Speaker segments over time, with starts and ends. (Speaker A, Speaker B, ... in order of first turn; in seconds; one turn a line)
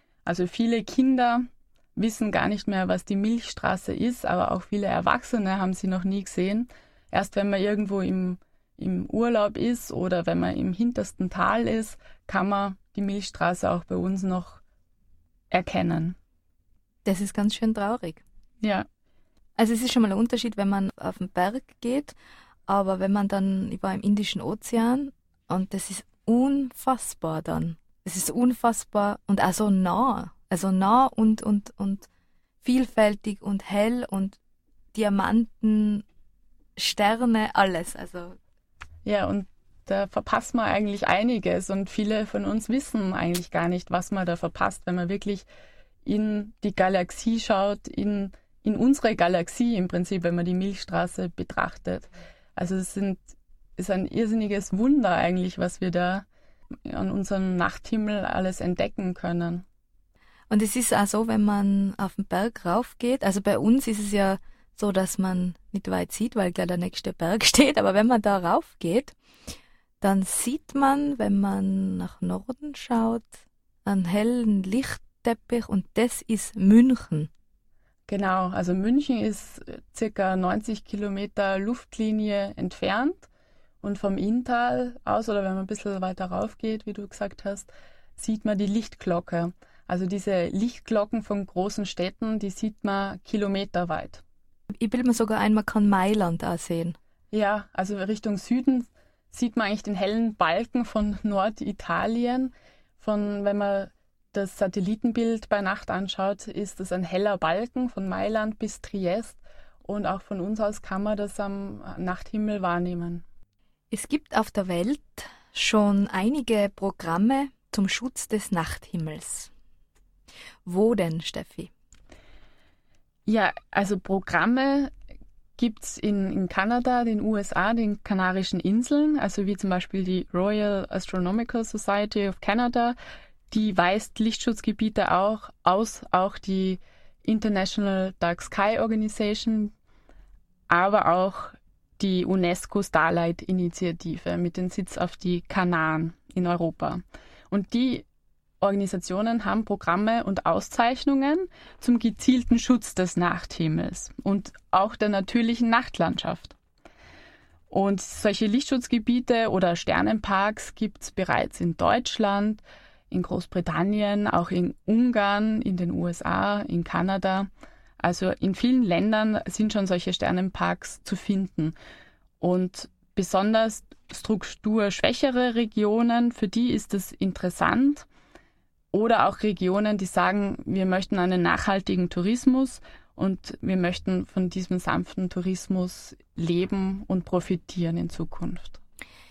Speaker A: 0.2-14.6
Speaker A: 15.5-16.2
Speaker B: 17.1-18.2
Speaker B: 19.6-22.1
Speaker B: 22.7-32.1
Speaker B: 32.6-34.4
Speaker B: 34.9-36.0
Speaker B: 36.8-38.4
Speaker A: 39.0-45.5
Speaker A: 46.0-53.2
Speaker A: 53.8-56.3
Speaker A: 56.9-59.6
Speaker B: 60.5-69.2
Speaker B: 70.0-77.3
Speaker A: 78.1-83.3
Speaker A: 83.8-94.2
Speaker B: 94.8-97.0
Speaker A: 97.3-113.2
Speaker B: 113.9-119.5
Speaker B: 120.7-121.7
Speaker A: 123.3-124.9
Speaker A: 125.6-132.9
Speaker A: 133.5-139.7
Speaker A: 140.7-148.1
Speaker A: 148.6-156.6
Speaker A: 157.7-167.5
Speaker A: 168.0-171.7
Speaker A: 172.4-178.1
Speaker A: 178.9-188.8